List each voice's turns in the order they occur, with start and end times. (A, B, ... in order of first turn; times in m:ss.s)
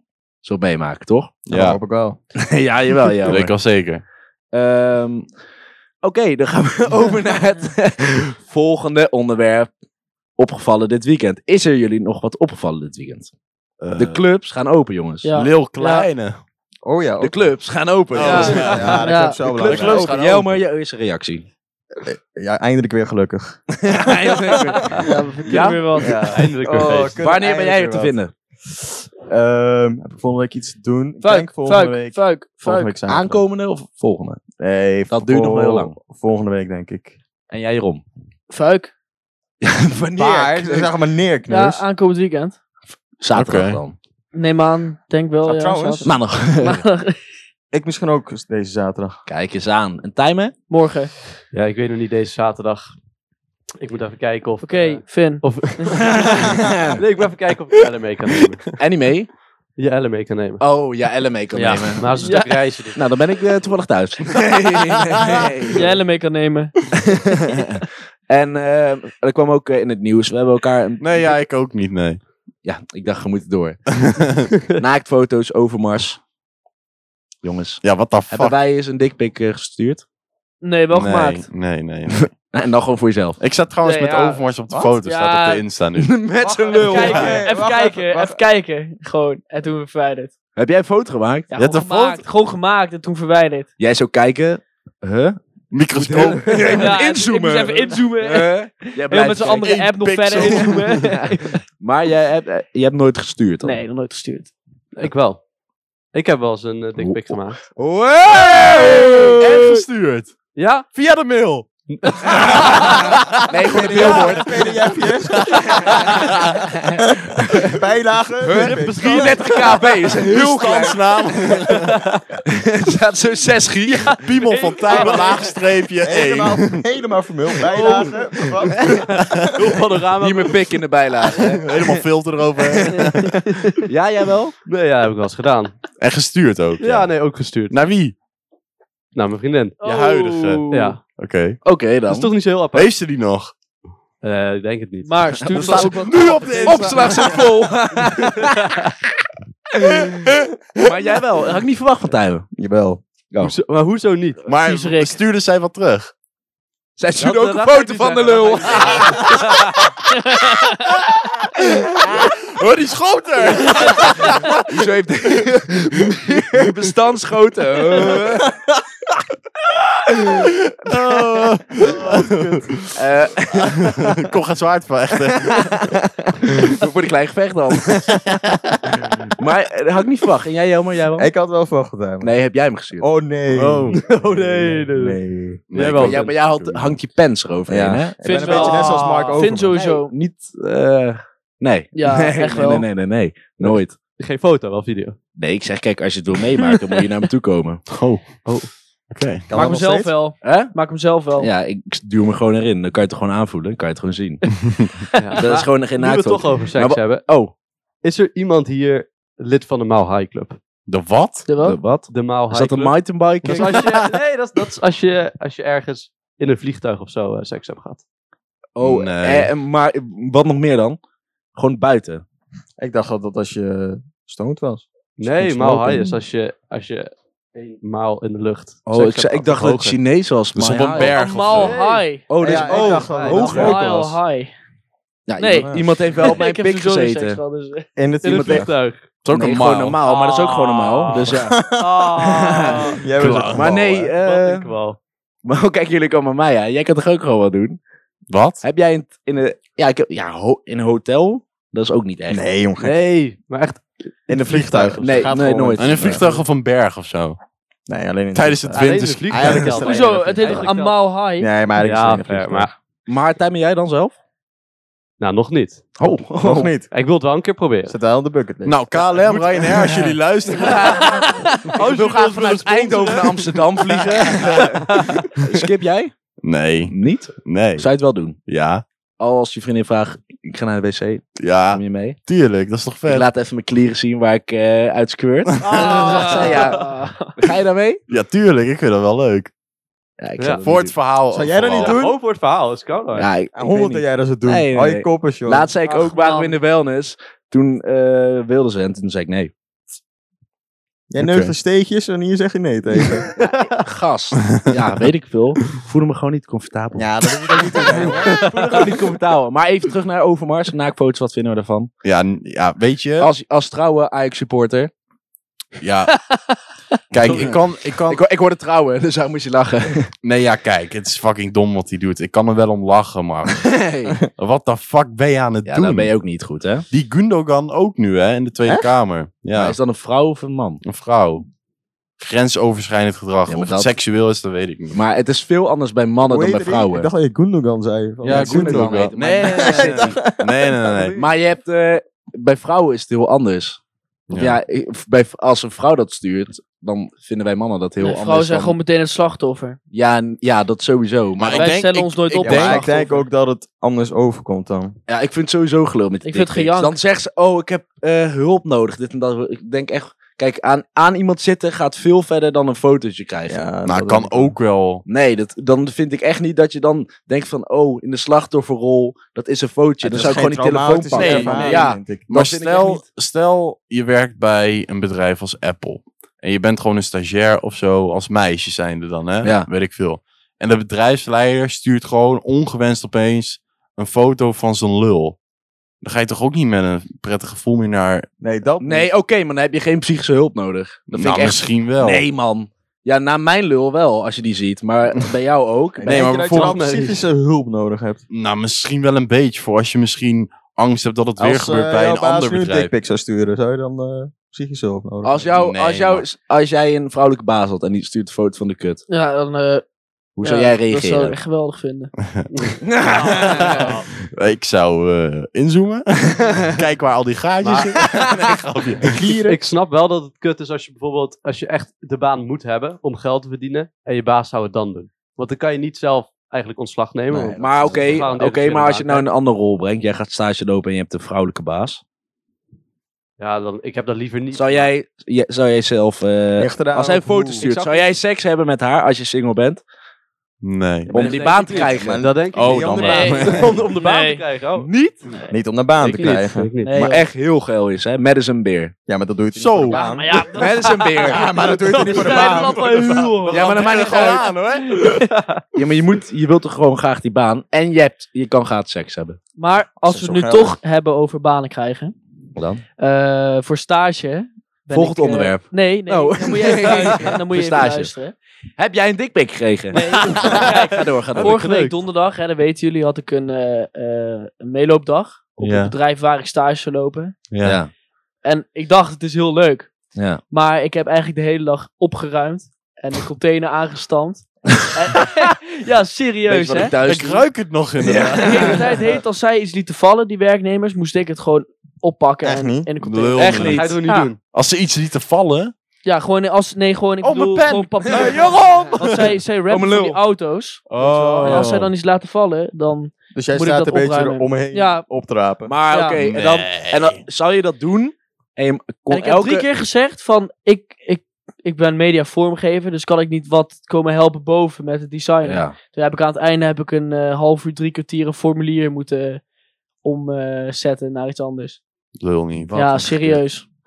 0:00.4-0:01.3 A
0:01.5-0:01.8 B
0:01.5-0:02.2 C
0:02.4-0:03.5 A
0:03.2-0:04.0 B
0:04.5-0:05.3 A
0:06.0-0:09.7 A
0:10.4-0:13.3 A
0:13.8-0:14.2 B
0:14.0-0:15.3 A
0:15.2-0:16.1 D
0:15.3-0:16.4 B
0:16.8-0:17.6 C
0:17.2-0:21.5 A
0:18.1-0:19.0 B
0:18.2-0:19.4 D
0:18.2-0:20.5 C
0:19.7-0:20.5 B
0:22.0-0:33.4 C
0:23.8-0:26.1 A
0:25.0-0:26.3 D
0:26.3-0:27.2 E
0:27.2-0:28.3 A
0:31.2-0:32.9 D
0:33.1-0:34.4 A
0:34.6-0:37.2 C
0:35.1-0:36.0 A
0:37.5-0:38.0 A
0:38.5-0:38.9 D
0:39.6-0:40.9 A
0:40.2-0:41.8 C
0:41.5-0:42.6 D
0:43.2-0:44.0 A
0:43.3-0:43.8 B
0:44.3-0:47.2 D
0:45.4-0:46.2 C
0:46.0-0:46.8 A
0:47.7-0:49.2 C
0:49.3-0:50.5 A
0:50.7-0:51.1 D
0:51.5-0:52.9 E
0:53.8-0:58.7 E
0:54.6-0:56.2 D
0:55.9-0:57.0 A
0:58.8-0:59.3 A
0:59.8-1:00.6 E
1:00.6-1:02.2 A
1:01.5-1:03.0 E
1:02.1-1:02.5 D
1:03.0-1:05.9 A
1:05.2-1:05.5 B
1:05.7-1:06.8 D
1:07.3-1:11.3 A
1:11.0-1:12.2 B
1:12.6-1:13.8 A
1:13.9-1:14.5 B
1:14.8-1:16.2 A
1:17.4-1:20.0 A
1:17.8-1:18.6 B
1:20.6-1:21.5 D
1:20.9-1:22.3 B
1:22.4-1:23.4 A
1:23.4-1:26.2 B
1:23.8-1:24.4 D
1:24.7-1:25.0 C
1:25.0-1:25.6 D
1:26.0-1:27.4 A
1:26.4-1:28.4 C
1:26.8-1:30.3 D
1:27.0-1:27.4 B
1:30.6-1:31.5 A
1:31.5-1:33.7 D
1:31.6-1:32.2 B
1:33.8-1:35.4 A
1:35.7-1:36.8 B
1:35.9-1:39.8 A
1:36.7-1:41.6 D
1:39.5-1:41.2 B
1:40.3-1:43.8 A
1:43.6-1:44.5 D
1:45.0-1:45.4 E
1:46.1-1:47.7 E
1:47.0-1:49.8 A
1:48.5-1:50.3 B
1:50.6-1:50.9 E
1:50.9-1:54.6 B
1:51.9-1:52.9 E
1:52.2-1:54.8 A
1:53.7-1:55.7 C
1:55.2-1:56.8 B
1:55.5-1:57.0 A
1:57.0-1:59.3 C
1:58.4-2:01.8 A
1:58.6-1:59.9 E
1:58.8-2:02.0 B
2:02.5-2:04.2 A
2:04.1-2:06.8 B
2:04.4-2:05.6 E
2:04.6-2:05.4 D
2:06.0-2:09.2 C
2:07.6-2:10.8 E
2:08.7-2:09.1 A
2:10.2-2:12.0 A
2:11.5-2:13.4 B
2:12.6-2:13.0 A
2:13.9-2:14.6 A
2:14.7-2:15.9 E
2:16.0-2:18.2 B
2:16.8-2:17.8 E
2:19.2-2:19.8 E
2:19.8-2:21.0 D
2:19.8-2:21.6 B
2:20.7-2:21.0 E
2:21.6-2:22.3 A
2:22.1-2:22.9 E
2:22.7-2:23.5 B
2:24.2-2:25.9 E
2:25.0-2:27.2 D
2:25.5-2:27.5 B
2:26.6-2:28.7 A
2:28.5-2:28.9 E
2:29.8-2:32.5 A
2:32.6-2:33.0 C
2:33.4-2:34.4 E
2:34.4-2:36.1 B
2:34.6-2:35.1 D
2:37.0-2:39.4 A
2:37.2-2:39.9 E
2:40.9-2:44.8 B
2:43.6-2:48.5 A
2:46.1-2:46.7 B
2:50.3-2:53.0 B
2:52.9-2:53.9 A
2:53.6-2:56.0 B
2:55.3-2:58.2 A
2:58.0-2:59.3 B
2:59.4-3:01.3 A
3:01.2-3:02.3 C
3:02.2-3:03.1 A
3:03.0-3:05.6 C
3:03.5-3:04.0 B
3:03.9-3:05.2 E
3:05.7-3:07.0 B
3:05.7-3:06.3 E
3:06.0-3:08.2 A
3:07.7-3:09.8 C
3:08.2-3:10.1 D
3:08.3-3:09.4 E
3:09.7-3:14.0 A
3:12.0-3:12.9 D
3:13.6-3:15.2 E
3:15.4-3:17.9 A
3:17.9-3:18.5 B
3:18.4-3:18.7 E
3:19.1-3:19.5 B
3:19.5-3:20.2 C
3:19.5-3:21.5 D
3:20.4-3:20.8 A
3:21.4-3:24.5 A
3:24.7-3:24.9 B
3:25.2-3:25.7 D
3:25.2-3:27.2 E
3:25.4-3:27.5 A
3:28.0-3:30.6 E
3:30.9-3:31.5 B
3:31.5-3:31.8 D
3:31.6-3:33.8 A
3:32.1-3:38.0 E
3:33.7-3:34.2 B
3:38.8-3:41.0 A
3:38.8-3:39.5 B
3:41.6-3:42.2 A
3:42.8-3:44.8 C
3:45.2-3:50.0 E
3:45.3-3:46.1 A
3:48.9-3:51.2 A
3:50.6-3:51.8 B
3:51.1-3:54.5 D
3:51.6-3:52.0 E
3:52.3-3:53.8 A
3:52.4-3:54.2 C
3:52.7-3:53.7 E
3:55.3-3:57.4 A
3:55.4-3:57.9 D
3:55.6-3:55.9 C
3:58.0-3:58.7 C
3:58.2-3:59.1 E
3:59.2-4:00.0 B
3:59.3-4:01.6 A
4:00.0-4:03.1 E
4:01.3-4:04.1 C
4:02.2-4:04.7 A
4:03.2-4:03.8 B
4:04.1-4:05.0 E
4:05.4-4:07.8 A
4:08.3-4:08.6 B
4:08.6-4:12.4 A
4:12.3-4:13.0 C
4:12.8-4:15.3 E
4:14.3-4:16.3 C
4:15.0-4:16.4 A
4:15.8-4:17.4 B
4:17.9-4:20.7 C
4:18.3-4:19.8 B
4:18.7-4:21.0 E
4:19.8-4:21.5 D
4:21.4-4:22.7 C
4:21.8-4:22.7 E
4:23.1-4:24.2 A
4:25.2-4:25.8 E
4:26.0-4:26.7 A
4:26.4-4:26.9 C
4:26.9-4:28.0 E
4:27.9-4:29.3 C
4:28.6-4:31.2 B
4:29.3-4:29.8 E
4:30.6-4:36.1 A
4:30.8-4:31.6 D
4:31.7-4:34.9 E
4:34.2-4:34.8 B
4:35.3-4:35.6 B
4:36.4-4:38.8 B
4:36.9-4:38.4 A
4:39.2-4:42.2 A
4:41.4-4:43.3 B
4:43.1-4:48.0 A
4:45.5-4:46.0 B
4:45.7-4:47.3 D
4:45.7-4:46.8 E
4:48.1-4:49.5 B
4:50.2-4:51.0 A
4:50.6-4:52.0 B
4:51.3-4:52.2 C
4:51.8-4:53.3 E
4:53.2-4:59.5 A
4:53.5-4:55.7 C
4:55.9-4:56.6 D
5:01.1-5:03.3 C
5:01.2-5:01.5 B
5:03.4-5:07.1 A
5:07.0-5:08.5 C
5:07.6-5:11.9 A
5:12.0-5:13.3 B
5:13.2-5:14.9 A
5:15.8-5:16.1 B
5:17.1-5:18.2 B
5:17.2-5:20.1 A
5:20.2-5:26.2 B
5:23.6-5:24.2 A
5:25.7-5:26.9 A
5:26.9-5:29.8 B
5:29.5-5:30.8 A
5:30.8-5:31.4 B
5:32.2-5:35.0 B
5:33.5-5:33.9 A
5:34.9-5:37.1 A
5:36.3-5:38.9 C
5:38.2-5:40.2 A
5:38.2-5:41.2 B
5:39.5-5:41.1 C
5:41.2-5:43.8 A
5:44.3-5:44.6 B
5:44.3-5:48.8 A
5:48.0-5:49.8 D
5:49.9-5:51.8 A
5:51.4-5:53.0 B
5:51.6-5:53.3 D
5:52.4-5:55.0 C
5:55.1-6:03.6 A
5:56.2-5:57.0 D
6:03.5-6:04.6 C
6:03.8-6:05.0 B
6:05.1-6:13.0 A
6:10.0-6:12.3 C
6:11.2-6:11.9 D
6:12.3-6:25.4 B
6:19.4-6:19.7 A
6:26.0-6:28.3 B
6:28.4-6:29.1 C
6:28.8-6:36.2 A
6:31.1-6:32.3 B
6:36.0-6:38.2 C
6:36.1-6:36.8 B
6:36.1-6:37.2 E
6:38.3-6:42.9 B
6:41.4-6:45.5 C
6:45.2-6:49.0 A
6:45.5-6:46.3 B
6:49.1-6:49.8 D
6:50.4-6:51.4 A
6:50.4-6:52.1 D
6:52.2-6:52.5 B
6:52.5-6:54.1 E
6:52.8-6:53.8 A
6:53.5-6:59.2 B
6:57.6-6:58.3 E
6:59.1-6:59.6 C
6:59.3-7:09.3 E
7:07.3-7:08.3 C
7:07.6-7:12.0 A
7:13.4-7:14.9 E
7:14.5-7:19.8 A
7:16.6-7:18.0 C
7:20.6-7:21.1 B
7:21.1-7:23.6 C
7:21.1-7:22.2 A
7:21.2-7:22.0 D
7:22.2-7:24.9 E
7:22.6-7:23.8 B
7:23.0-7:24.4 D
7:24.8-7:25.2 A
7:25.5-7:26.7 C
7:26.0-7:27.0 E
7:26.8-7:27.3 D
7:26.9-7:28.9 A
7:29.1-7:30.5 C
7:29.6-7:30.1 B
7:29.9-7:35.5 D
7:30.5-7:31.5 A
7:31.2-7:33.2 C
7:31.9-7:33.6 E
7:33.5-7:34.4 A
7:33.5-7:35.1 B
7:35.8-7:39.4 A
7:39.6-7:42.1 D
7:40.0-7:40.8 C
7:42.6-7:42.8 A
7:43.0-7:48.4 D
7:44.9-7:48.1 A
7:48.8-7:51.6 A
7:49.9-7:52.0 E
7:50.0-7:57.4 D
7:55.6-7:56.0 B
7:57.5-7:57.8 B
7:57.6-7:57.9 A
7:58.4-7:59.9 D
8:00.2-8:00.4 A
8:00.5-8:07.0 D
8:06.5-8:07.5 A
8:07.0-8:09.0 B
8:08.0-8:08.8 A
8:08.4-8:14.3 D
8:12.4-8:12.9 C
8:13.0-8:13.9 B
8:13.4-8:13.9 A
8:13.7-8:14.4 E
8:14.4-8:15.7 B
8:16.0-8:25.1 D
8:17.2-8:19.4 B
8:19.7-8:20.2 A
8:20.9-8:21.9 B
8:21.0-8:21.7 C
8:23.4-8:25.7 C
8:25.7-8:29.7 A
8:25.9-8:26.2 D
8:26.2-8:27.2 B
8:29.1-8:39.4 D
8:35.4-8:35.8 A
8:40.0-8:41.8 D
8:42.2-8:43.4 B
8:42.7-8:43.6 D